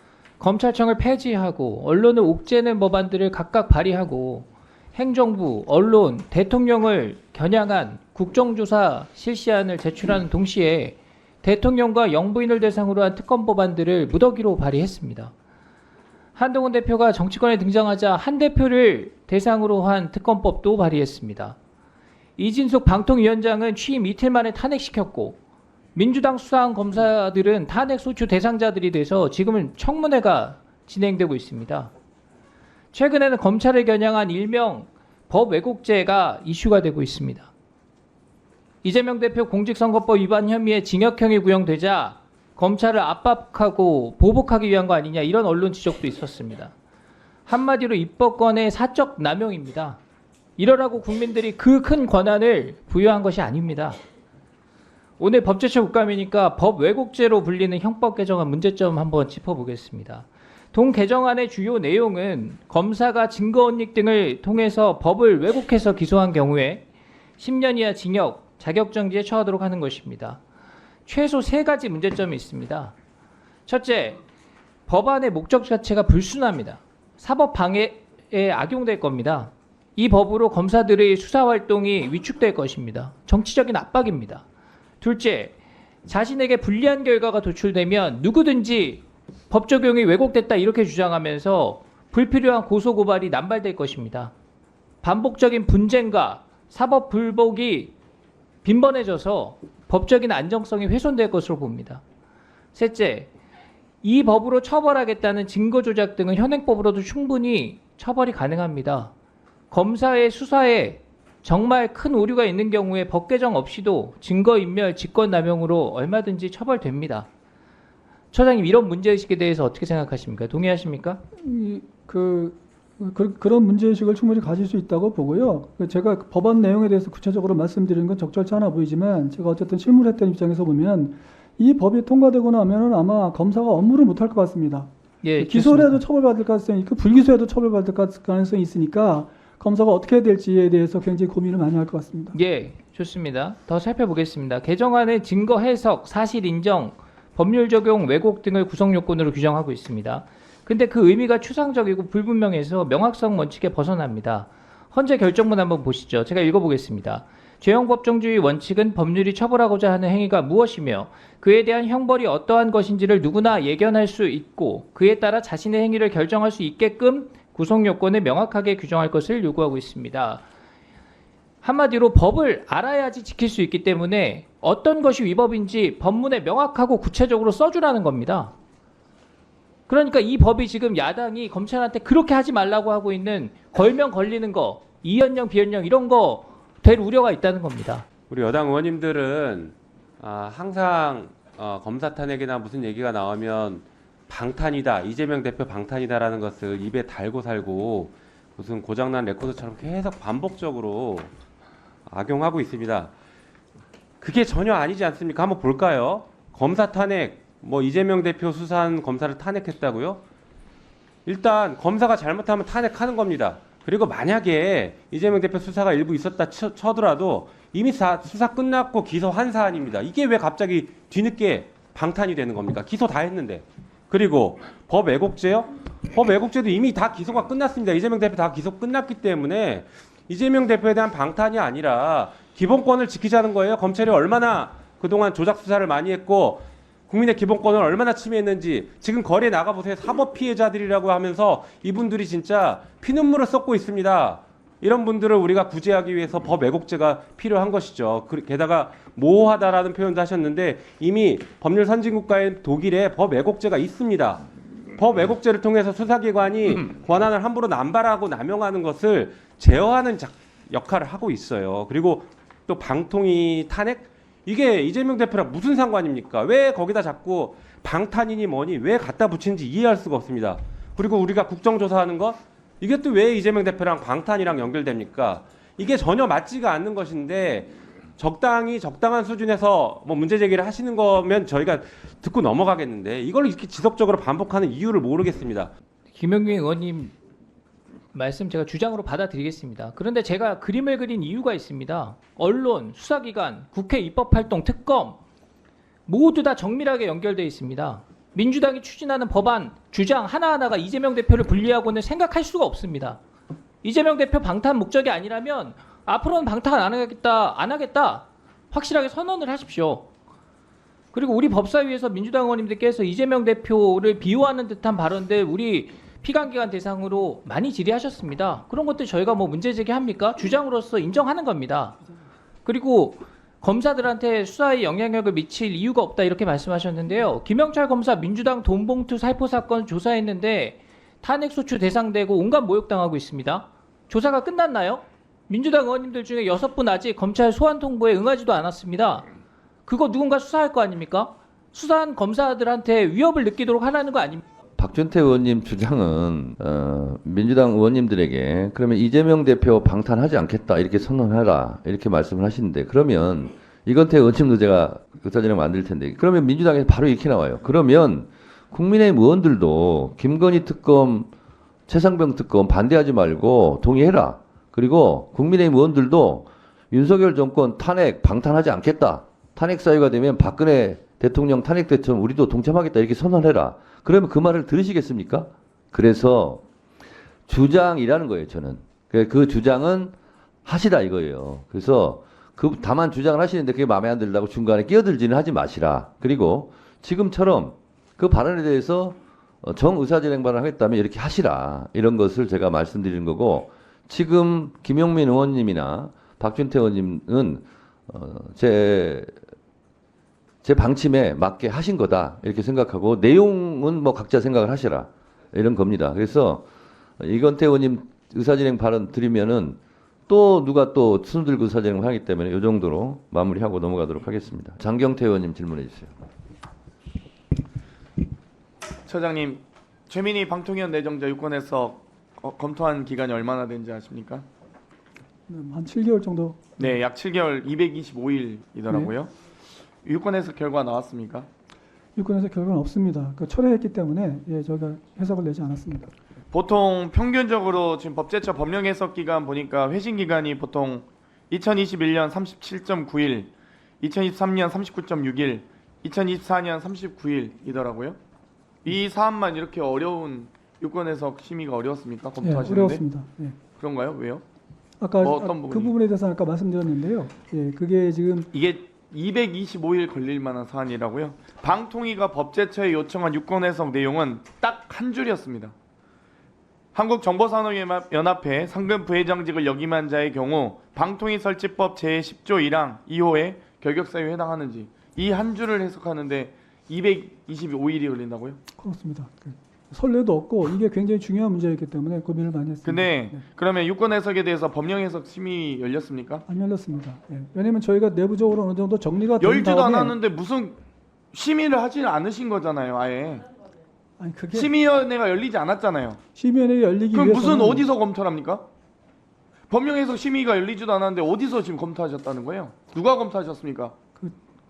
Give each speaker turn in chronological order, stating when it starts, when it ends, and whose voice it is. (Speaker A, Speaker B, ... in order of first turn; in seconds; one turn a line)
Speaker A: 0.4-15.3
Speaker A: 16.3-21.6
Speaker A: 22.4-25.4
Speaker A: 25.9-31.9
Speaker A: 32.9-37.5
Speaker A: 38.8-46.7
Speaker A: 47.5-50.0
Speaker A: 50.6-54.0
Speaker A: 55.2-66.9
Speaker A: 67.4-70.4
Speaker A: 71.0-72.9
Speaker A: 73.7-74.2
Speaker A: 74.9-84.4
Speaker A: 85.0-85.5
Speaker A: 86.0-94.3
Speaker A: 95.0-97.9
Speaker A: 98.6-102.0
Speaker A: 102.7-103.3
Speaker A: 104.0-109.1
Speaker A: 109.7-117.3
Speaker A: 118.3-121.2
Speaker B: 121.4-134.9
Speaker A: 135.2-136.0
Speaker B: 135.4-142.3
Speaker A: 142.3-170.4
Speaker A: 171.6-178.5
Speaker A: 179.9-188.0
Speaker C: 188.3-201.3
Speaker C: 202.1-203.1
Speaker C: 204.2-210.2
Speaker C: 211.2-254.4
Speaker C: 255.0-285.7
Speaker A: 286.1-287.1
Speaker A: 288.1-295.2
Speaker A: 296.1-303.2
Speaker A: 303.8-310.1
Speaker A: 311.1-322.0
Speaker A: 322.6-339.2
Speaker A: 339.9-344.4
Speaker D: 344.8-361.3
Speaker D: 361.9-376.6
Speaker D: 377.5-380.1
Speaker D: 380.6-399.3
Speaker D: 400.6-406.6
Speaker D: 407.2-416.1
Speaker E: 419.1-424.4
Speaker B: 425.5-426.9
Speaker E: 426.8-429.3
Speaker E: 430.0-431.5
Speaker B: 432.1-436.1
Speaker E: 436.5-448.2
Speaker E: 448.8-453.0
Speaker B: 452.4-453.6
Speaker E: 453.7-454.4
Speaker B: 455.0-458.5
Speaker E: 455.2-455.9
Speaker E: 458.5-465.7
Speaker E: 466.9-478.6
Speaker B: 478.8-483.4
Speaker E: 482.8-486.4
Speaker B: 486.5-490.2
Speaker E: 489.4-490.8
Speaker E: 491.3-493.5
Speaker B: 494.2-494.7
Speaker E: 494.5-496.2
Speaker B: 496.3-497.9
Speaker E: 497.1-498.7
Speaker E: 499.7-503.9